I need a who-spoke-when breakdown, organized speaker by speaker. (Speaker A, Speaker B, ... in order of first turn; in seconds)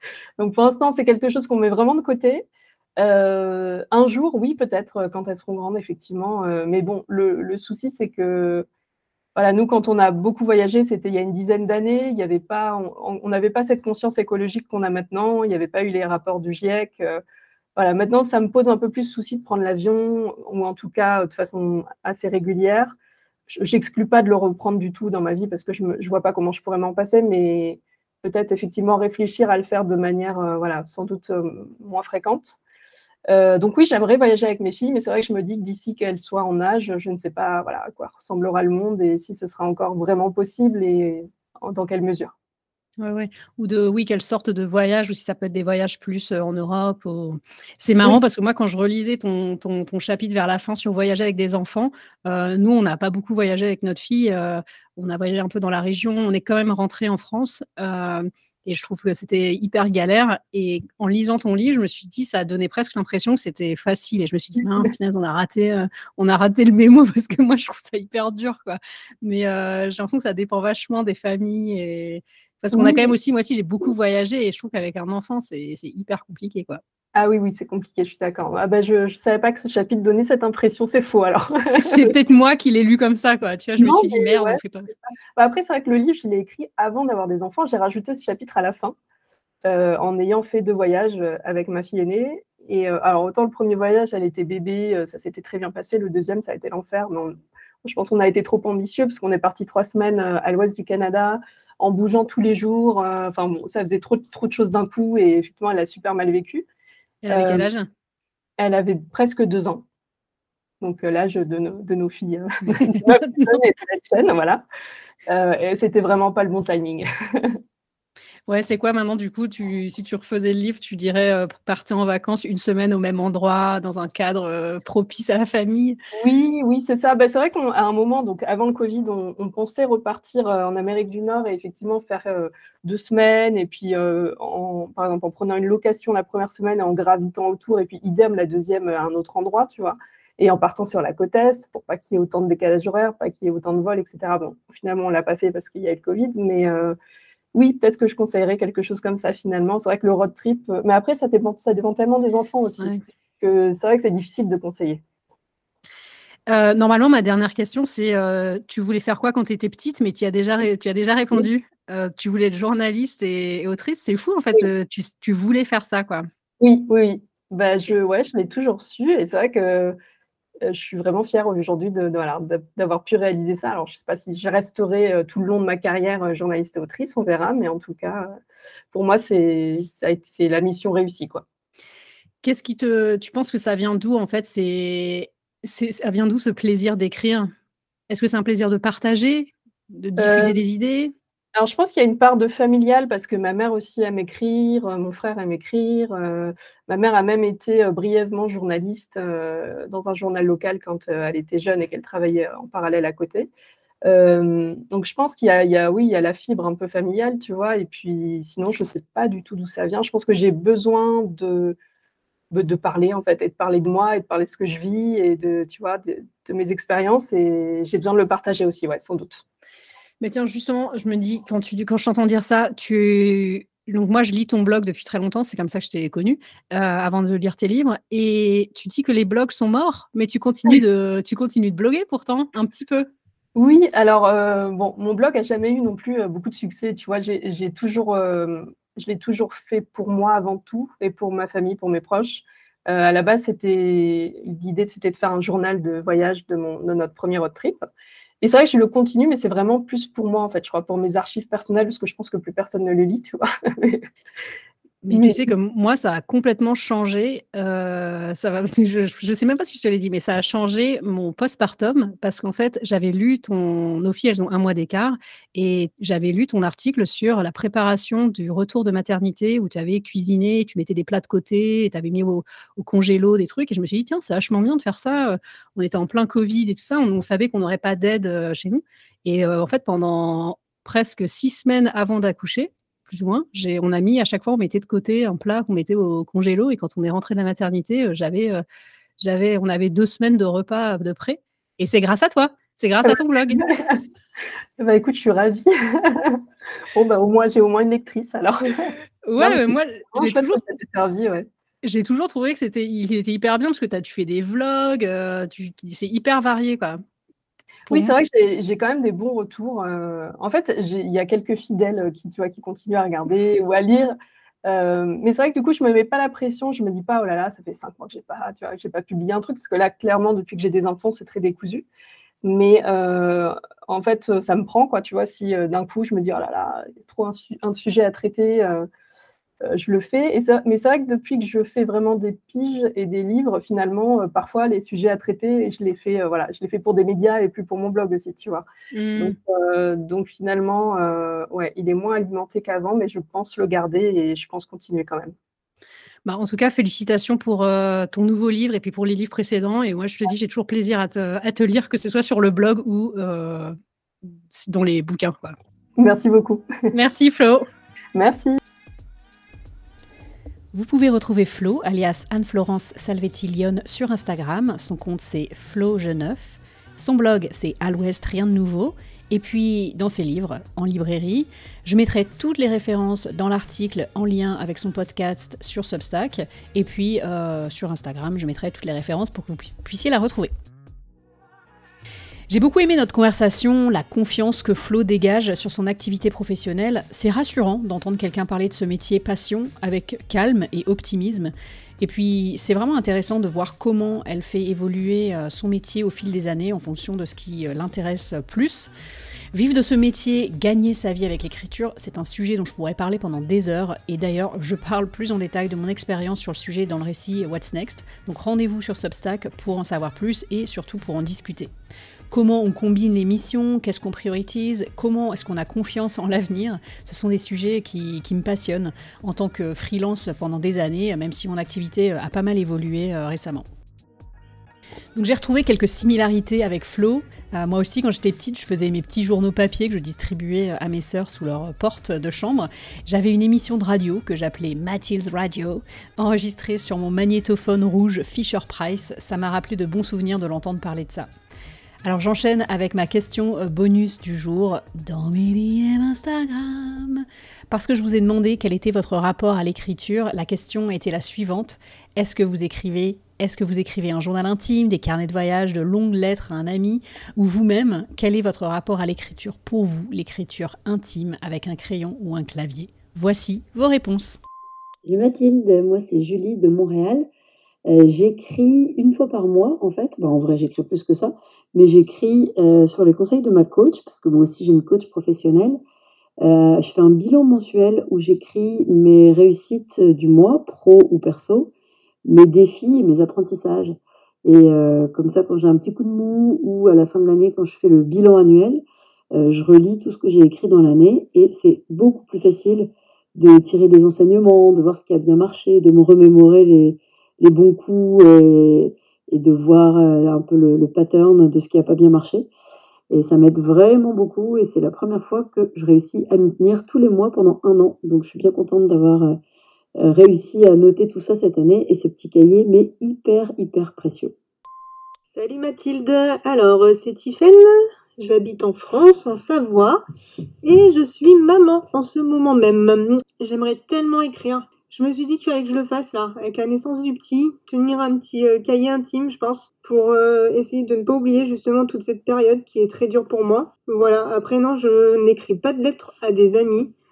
Speaker A: 0.4-2.5, 3.0-8.7, 9.4-17.2, 17.8-23.0, 23.5-32.6, 33.3-42.3, 72.7-73.2, 77.2-82.2, 83.8-89.0, 89.7-106.7, 107.3-107.7, 108.6-109.8, 110.8-114.6, 115.3-117.6, 126.2-147.0, 147.5-155.0, 166.6-170.0, 170.6-178.4, 178.9-181.4, 190.2-190.6, 191.6-203.5, 204.1-211.8, 212.5-219.4, 233.6-247.9, 248.4-254.1, 255.1-255.4, 293.1-294.0, 294.8-301.5, 307.9-314.1, 314.6-321.9, 322.4-328.9, 329.6-338.7, 339.2-345.3, 356.0-356.9, 358.1-358.6
Speaker B: 43.0-76.8, 81.8-84.9, 107.2-107.9, 118.5-126.0, 156.5-166.3, 182.4-187.5, 188.1-191.1, 220.2-233.1, 255.0-288.6, 289.2-293.7, 299.2-300.6, 301.8-307.0, 307.9-308.1, 338.9-339.4, 346.2-355.6, 356.9-357.7
Speaker C: 360.7-380.5, 382.5-398.9, 399.5-411.7, 412.3-423.6, 425.2-441.3, 442.0-464.4
Speaker D: 465.0-467.3, 467.9-475.8, 476.4-481.7, 482.3-502.5, 503.1-509.4, 510.0-514.3
Speaker E: 515.3-520.0, 520.6-536.9